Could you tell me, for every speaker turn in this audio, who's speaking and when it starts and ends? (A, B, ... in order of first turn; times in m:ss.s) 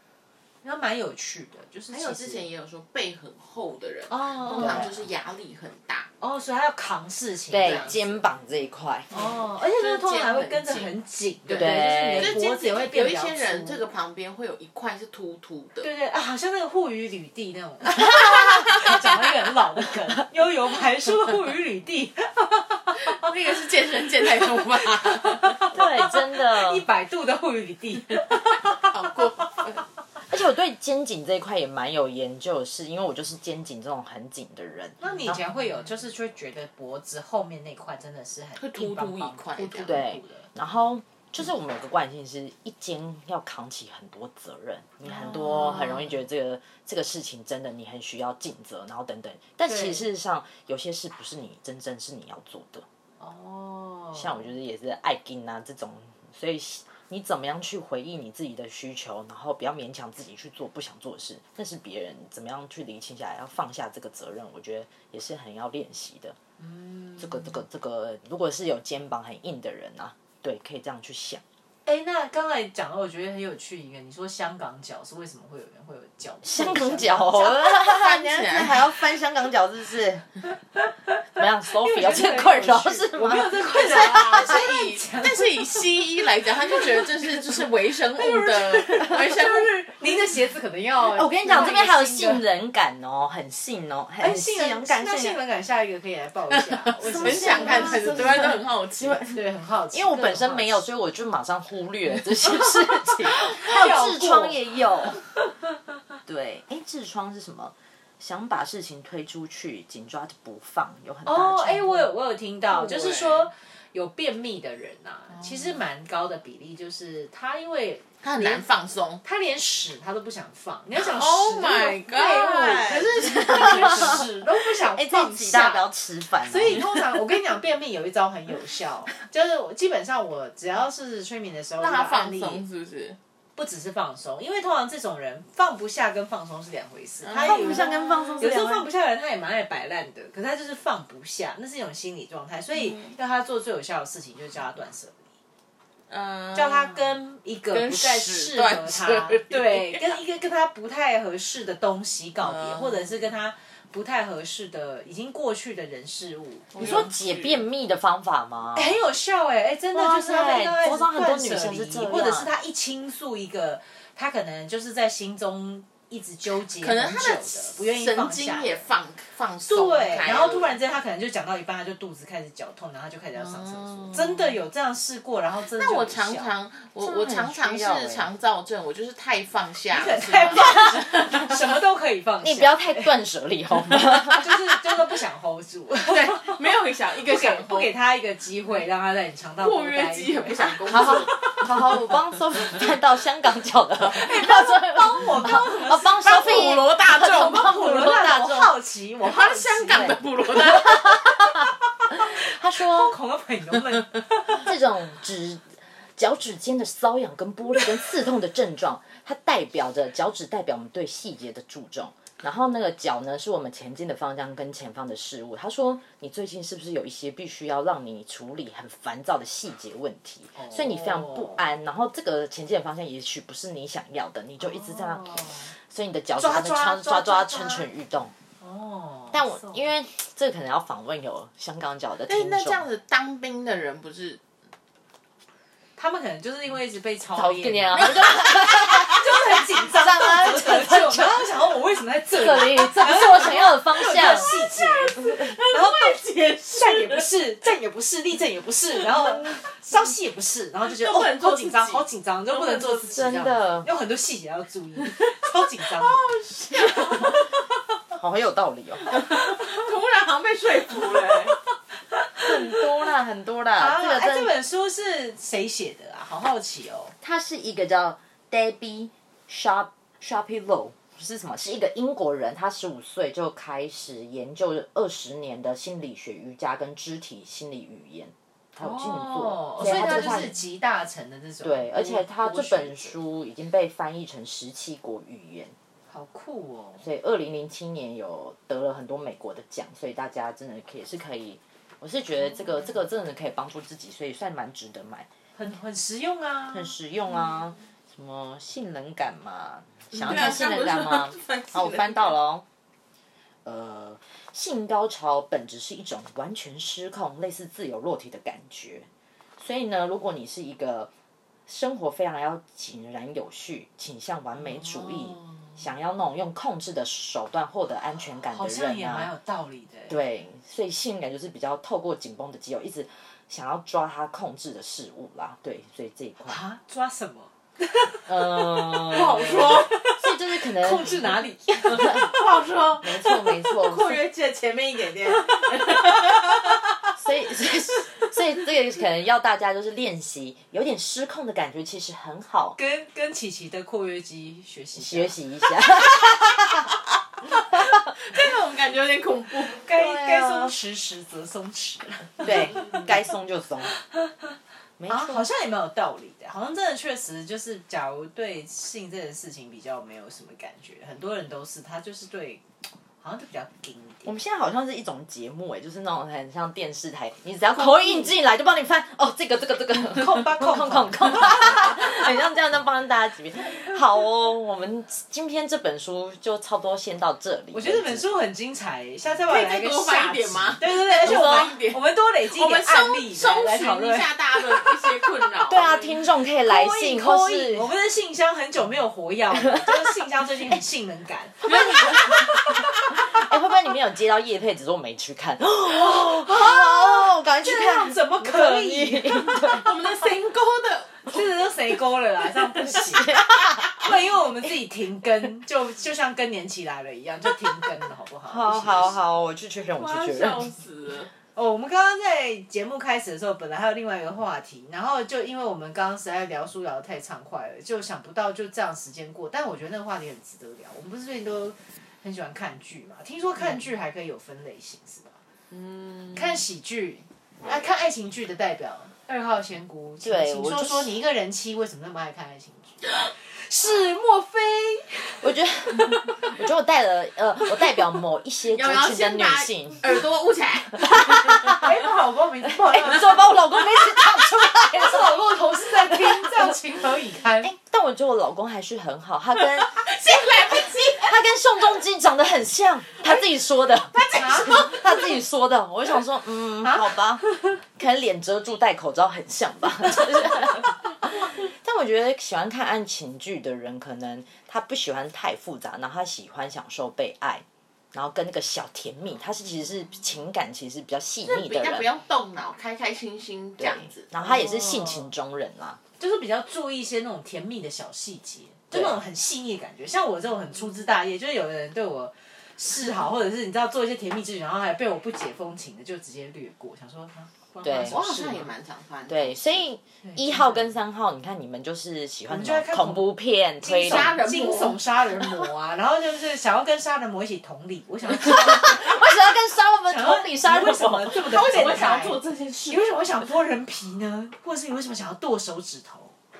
0:00.6-0:02.5 A
0:01.9-0:06.1 B
0:04.1-0:04.9 A
0:04.6-0:05.0 C
0:06.2-0:08.0 A
0:07.5-0:09.1 C
0:07.6-0:08.2 B
0:09.1-0:13.8 A
0:09.1-0:10.9 B
0:11.5-0:15.9 B
0:11.6-0:12.4 C
0:15.8-0:29.4 A
0:18.1-0:18.9 C
0:23.0-0:25.6 B
0:25.7-0:26.8 C
0:28.7-0:29.8 B
0:30.3-0:35.4 C
0:35.0-0:40.5 A
0:38.6-0:40.0 B
0:39.8-0:52.8 C
0:45.0-0:46.2 A
0:49.6-0:50.0 A
0:53.2-0:54.5 A
0:54.1-1:06.4 C
1:06.6-1:07.6 A
1:07.2-1:11.4 C
1:11.8-1:17.5 A
1:16.4-1:20.3 C
1:17.4-1:18.9 B
1:20.7-1:25.8 A
1:21.4-1:24.5 C
1:23.7-1:30.0 B
1:26.8-1:32.4 A
1:31.1-1:35.4 C
1:34.2-1:38.6 A
1:36.5-1:39.4 B
1:37.2-1:45.2 C
1:39.3-1:40.8 A
1:43.2-1:43.8 B
1:43.2-1:45.1 A
1:46.2-1:52.0 C
1:51.2-1:58.6 A
1:52.7-1:53.5 B
1:55.3-1:55.8 B
1:58.2-1:59.2 B
1:59.2-2:05.8 A
2:00.9-2:04.2 B
2:03.6-2:04.1 C
2:04.8-2:07.1 C
2:06.4-2:12.6 A
2:11.8-2:13.2 B
2:13.6-2:25.2 A
2:17.2-2:18.5 B
2:17.4-2:18.9 C
2:22.8-2:23.2 B
2:26.1-2:27.2 B
2:26.5-2:37.1 A
2:27.7-2:30.2 B
2:32.4-2:33.3 B
2:36.7-2:37.6 B
2:36.8-2:39.0 C
2:38.7-2:48.8 A
2:39.9-2:42.5 C
2:46.8-2:50.8 B
2:49.6-2:56.5 A
2:53.4-2:54.6 B
2:55.7-3:01.6 B
2:57.0-2:58.3 C
2:59.9-3:03.1 A
3:02.4-3:04.5 C
3:04.0-3:06.6 A
3:06.0-3:07.9 B
3:07.2-3:11.7 A
3:09.6-3:11.7 B
3:10.9-3:18.7 C
3:14.0-3:16.3 A
3:16.0-3:18.1 B
3:17.5-3:20.2 A
3:19.2-3:21.5 B
3:19.9-3:23.2 C
3:22.1-3:24.6 A
3:24.5-3:48.3 C
3:40.6-3:41.6 A
3:44.6-3:45.7 A
3:46.4-3:47.9 B
3:48.6-3:49.8 A
3:49.3-3:52.8 C
3:52.3-3:54.4 B
3:56.0-4:16.4 A
3:57.4-4:01.4 C
4:02.3-4:04.5 C
4:04.2-4:07.3 B
4:10.8-4:13.1 B
4:13.1-4:13.9 C
4:15.9-4:17.5 B
4:18.1-4:19.2 C
4:19.0-4:21.6 B
4:22.4-4:24.5 C
4:23.8-4:27.1 A
4:27.2-4:40.5 C
4:38.8-4:43.1 A
4:41.6-4:45.8 C
4:46.1-4:47.1 A
4:47.0-4:55.3 C
4:55.6-4:56.9 A
4:56.7-5:02.6 C
5:00.1-5:00.6 A
5:00.2-5:02.4 B
5:03.6-5:11.1 C
5:11.7-5:19.3 C
5:14.7-5:15.5 A
5:18.5-5:20.2 A
5:20.1-5:26.6 C
5:26.4-5:32.3 A
5:28.2-5:32.3 C
5:29.1-5:29.9 B
5:31.9-5:33.2 B
5:33.0-5:34.2 C
5:33.6-5:36.4 A
5:35.4-5:36.1 B
5:37.2-5:42.8 C
5:42.8-5:45.4 A
5:44.9-5:46.9 C
5:47.5-5:49.8 B
5:47.7-5:48.1 C
5:49.7-5:53.1 A
5:49.9-5:50.7 C
5:52.4-5:54.0 C
5:53.9-5:54.6 A
5:55.0-5:55.5 C
5:55.1-6:02.6 A
6:03.2-6:04.3 A
6:04.2-6:18.2 C
6:07.8-6:08.3 A
6:10.0-6:11.8 A
6:17.7-6:24.3 A
6:19.5-6:26.2 B
6:21.2-6:21.7 C
6:25.6-6:27.9 C
6:26.7-6:32.8 A
6:29.5-6:30.1 C
6:31.6-6:32.5 C
6:31.7-6:32.2 B
6:33.1-6:39.8 C
6:36.0-6:39.8 A
6:39.5-6:41.5 B
6:41.2-6:43.4 A
6:42.8-6:44.1 C
6:44.0-6:49.2 A
6:48.5-6:50.7 C
6:49.9-6:51.3 B
6:51.5-7:05.4 A
7:05.7-7:06.6 B
7:06.3-7:15.5 A
7:10.2-7:11.1 C
7:15.4-7:20.2 C
7:18.7-7:21.6 B
7:21.0-7:21.9 C
7:21.5-7:23.6 A
7:22.7-7:26.8 C
7:24.8-7:27.7 A
7:27.6-7:52.1 C
7:29.8-7:31.8 B
7:33.2-7:33.5 B
7:34.1-7:35.2 B
7:34.3-7:34.9 A
7:36.8-7:37.7 A
7:51.4-7:54.3 B
7:53.8-7:56.0 C
7:54.4-7:55.3 A
7:56.2-8:08.7 A
7:58.9-7:59.2 C
8:07.7-8:09.9 B
8:07.8-8:08.2 C
8:09.3-8:14.4 C
8:10.2-8:10.9 A
8:12.5-8:19.2 A
8:13.9-8:15.0 B
8:18.4-8:21.9 C
8:20.1-8:26.4 A
8:21.3-8:23.4 B